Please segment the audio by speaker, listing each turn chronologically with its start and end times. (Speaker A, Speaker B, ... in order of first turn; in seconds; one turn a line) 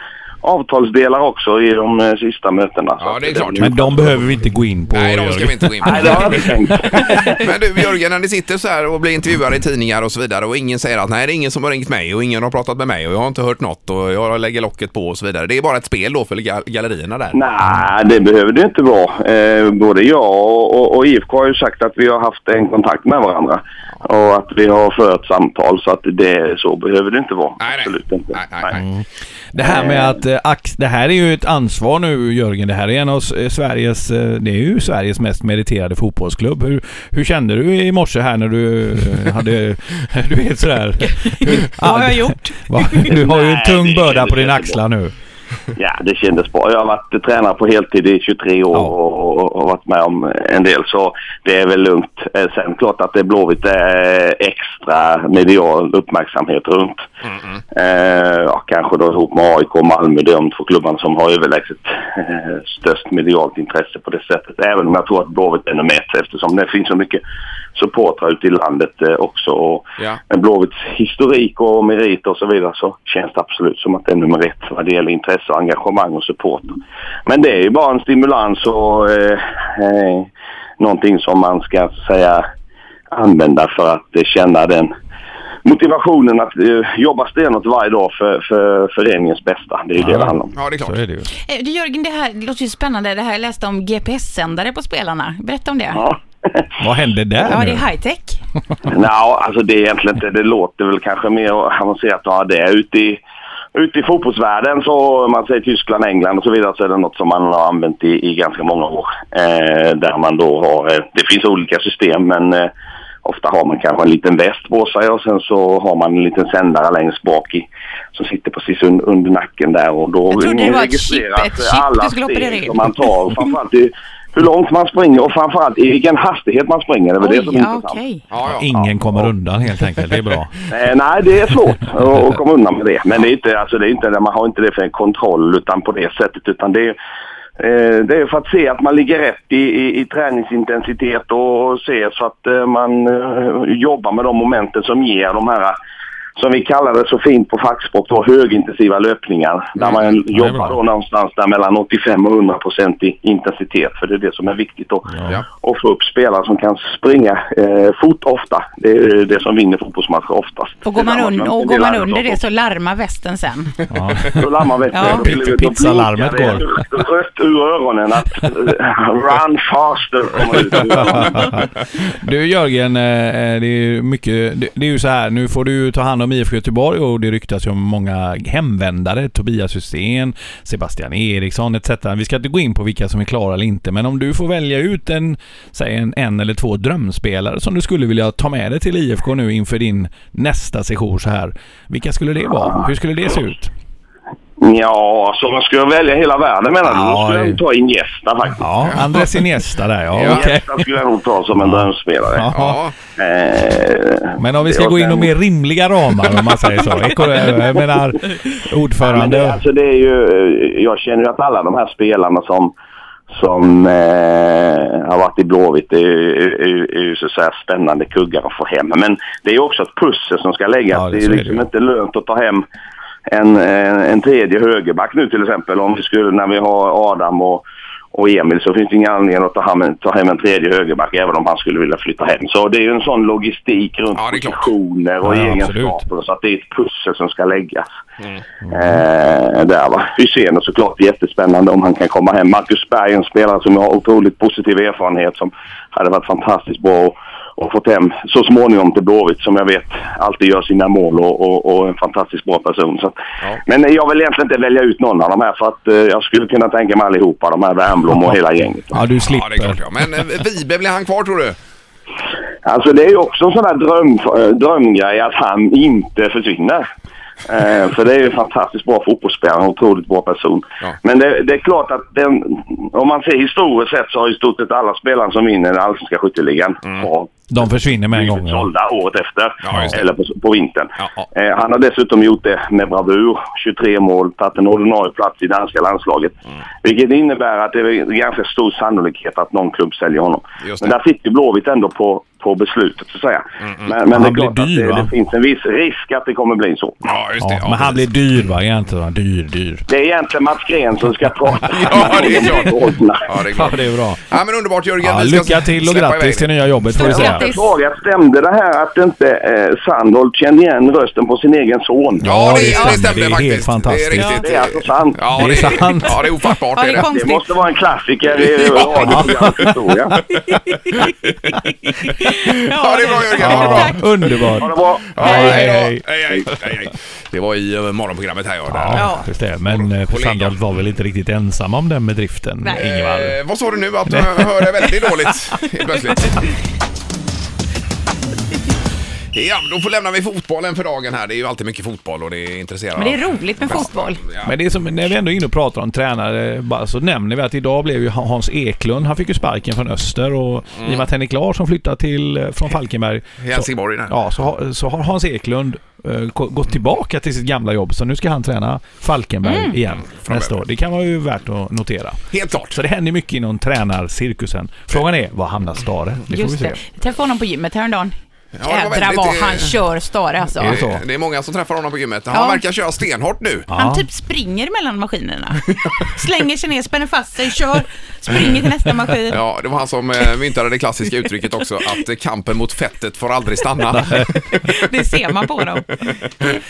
Speaker A: 0.4-4.0
Speaker B: 3.0-4.2
Speaker C: 3.6-7.2
Speaker B: 4.9-17.4
Speaker A: 5.8-7.4
Speaker A: 17.3-28.8
Speaker B: 27.6-28.8
Speaker C: 28.7-45.1
Speaker A: 29.6-30.2
Speaker D: 41.1-43.1
Speaker A: 43.1-44.8
Speaker A: 45.8-57.1
Speaker B: 57.3-57.5
Speaker A: 57.7-67.2
Speaker A: 67.8-82.5
Speaker A: 83.1-84.9
Speaker A: 85.6-90.5
Speaker C: 90.0-91.3
Speaker B: 90.5-91.0
Speaker D: 91.4-96.1
Speaker A: 96.0-96.7
Speaker C: 96.8-97.8
Speaker D: 97.4-98.4
Speaker A: 98.9-103.2
Speaker A: 103.8-112.7
Speaker A: 113.2-128.0
Speaker D: 120.3-123.4
Speaker D: 127.2-128.2
Speaker B: 128.3-128.7
Speaker C: 128.5-130.6
Speaker A: 130.7-137.0
Speaker A: 137.6-145.8
Speaker A: 146.4-162.4
Speaker B: 149.8-150.1
Speaker C: 150.3-150.8
Speaker C: 155.1-155.4
Speaker D: 160.8-163.8
Speaker C: 163.9-164.5
Speaker A: 164.3-171.6
Speaker D: 164.9-165.3
Speaker C: 165.0-166.9
Speaker C: 170.7-193.7
Speaker A: 194.6-198.7
Speaker C: 196.8-197.6
Speaker C: 198.6-200.7
Speaker B: 200.1-200.4
Speaker A: 200.2-202.5
Speaker C: 201.6-202.8
Speaker B: 202.5-202.9
Speaker A: 203.2-205.3
Speaker C: 204.4-209.6
Speaker A: 209.0-212.7
Speaker A: 213.3-222.6
Speaker C: 220.9-221.7
Speaker A: 223.3-237.9
Speaker B: 234.1-234.7
Speaker C: 235.2-236.0
Speaker C: 238.6-239.0
Speaker A: 238.7-259.0
Speaker C: 258.9-259.9
Speaker B: 259.2-261.6
Speaker A: 262.6-266.9
Speaker A: 267.4-277.5
Speaker C: 277.5-278.7
Speaker A: 278.0-297.0
Speaker B: 279.6-280.1
Speaker B: 281.0-281.2
Speaker B: 290.6-291.0
Speaker B: 293.6-293.9
Speaker C: 294.1-295.1
Speaker B: 297.0-298.1
Speaker C: 297.4-299.9
Speaker A: 299.9-303.4
Speaker B: 301.7-302.7
Speaker B: 303.2-306.5
Speaker C: 303.5-304.2
Speaker C: 305.0-307.5
Speaker D: 306.9-307.7
Speaker A: 307.0-312.3
Speaker C: 312.2-314.4
Speaker B: 312.2-317.1
Speaker D: 314.1-314.4
Speaker A: 314.4-315.3
Speaker C: 315.3-316.2
Speaker D: 316.7-317.6
Speaker A: 316.9-320.2
Speaker B: 318.3-319.7
Speaker C: 319.0-319.5
Speaker B: 320.4-321.6
Speaker D: 320.7-321.1
Speaker D: 321.7-324.5
Speaker B: 322.4-324.3
Speaker C: 323.4-326.6
Speaker A: 324.6-325.3
Speaker B: 325.1-329.1
Speaker D: 325.2-325.6
Speaker C: 328.7-333.4
Speaker D: 328.9-329.3
Speaker B: 329.7-330.6
Speaker B: 332.8-336.4
Speaker C: 334.1-334.6
Speaker B: 339.3-344.5
Speaker D: 343.0-344.2
Speaker C: 344.4-366.8
Speaker B: 353.4-354.1
Speaker D: 359.4-359.8
Speaker B: 359.9-360.6
Speaker B: 362.3-362.8
Speaker D: 366.3-370.8
Speaker B: 368.5-369.8
Speaker C: 370.6-371.0
Speaker B: 370.6-373.7
Speaker D: 372.3-372.6
Speaker C: 373.7-374.0
Speaker D: 373.7-379.4
Speaker B: 379.3-384.7
Speaker C: 383.9-384.4
Speaker D: 384.5-386.1